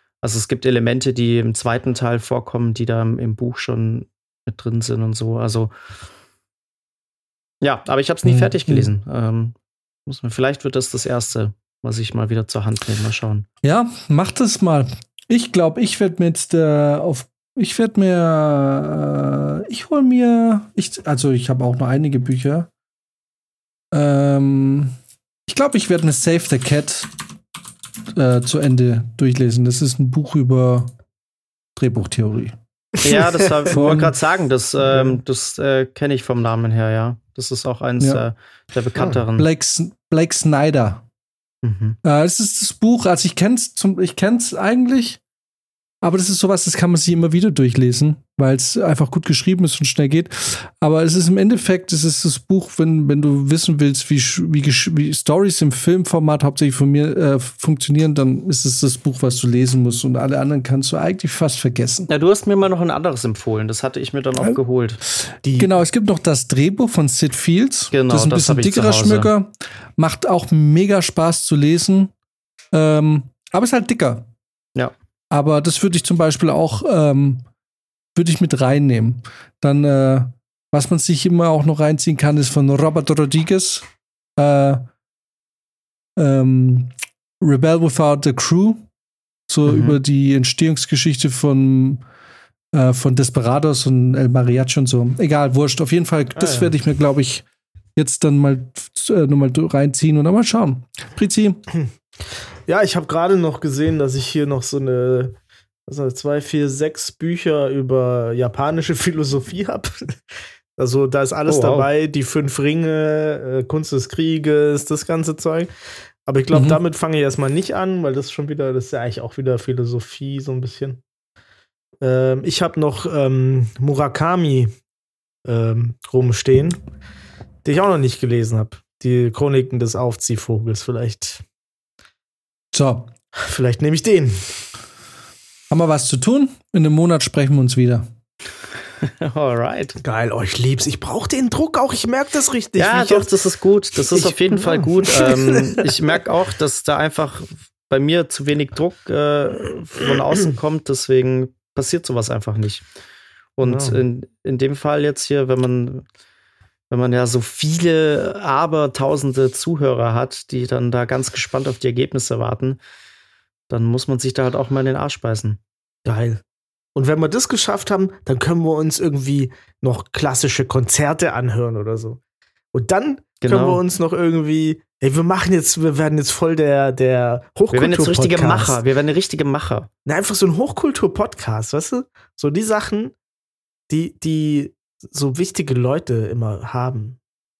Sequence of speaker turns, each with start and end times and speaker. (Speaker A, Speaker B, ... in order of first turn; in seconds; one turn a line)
Speaker A: 0.2-5.7
Speaker A: 7.6-9.6
Speaker B: 8.2-8.9
Speaker A: 10.1-13.5
Speaker B: 13.6-22.7
Speaker B: 23.9-24.9
Speaker B: 25.5-27.1
Speaker B: 28.1-30.9
Speaker B: 31.8-32.6
Speaker A: 33.0-39.5
Speaker B: 33.7-34.1
Speaker B: 39.4-41.0
Speaker A: 41.6-42.0
Speaker B: 42.0-45.2
Speaker B: 46.0-62.1
Speaker A: 62.1-65.0
Speaker C: 65.4-65.8
Speaker B: 65.6-72.1
Speaker A: 67.9-69.3
Speaker B: 72.7-74.3
Speaker B: 75.3-77.5
Speaker B: 78.2-83.9
Speaker B: 84.4-84.9
Speaker B: 86.2-88.9
Speaker B: 89.5-92.0
Speaker B: 92.7-97.5
Speaker C: 96.4-96.7
Speaker B: 98.0-101.7
Speaker C: 102.7-105.3
Speaker C: 105.9-110.2
Speaker C: 110.8-115.7
Speaker A: 111.5-111.9
Speaker C: 116.3-121.0
Speaker B: 116.5-116.8
Speaker C: 122.0-124.7
Speaker C: 125.5-126.8
Speaker C: 127.7-131.4
Speaker B: 132.7-133.1
Speaker C: 133.4-134.6
Speaker B: 135.7-138.1
Speaker A: 139.0-140.0
Speaker C: 140.0-143.3
Speaker A: 142.8-152.8
Speaker C: 144.1-145.9
Speaker A: 153.6-156.1
Speaker C: 153.6-154.0
Speaker A: 156.9-162.8
Speaker A: 163.7-165.6
Speaker C: 166.1-166.4
Speaker C: 166.9-172.2
Speaker C: 172.7-178.8
Speaker A: 173.4-173.8
Speaker A: 177.7-179.9
Speaker C: 180.1-183.1
Speaker C: 183.9-187.2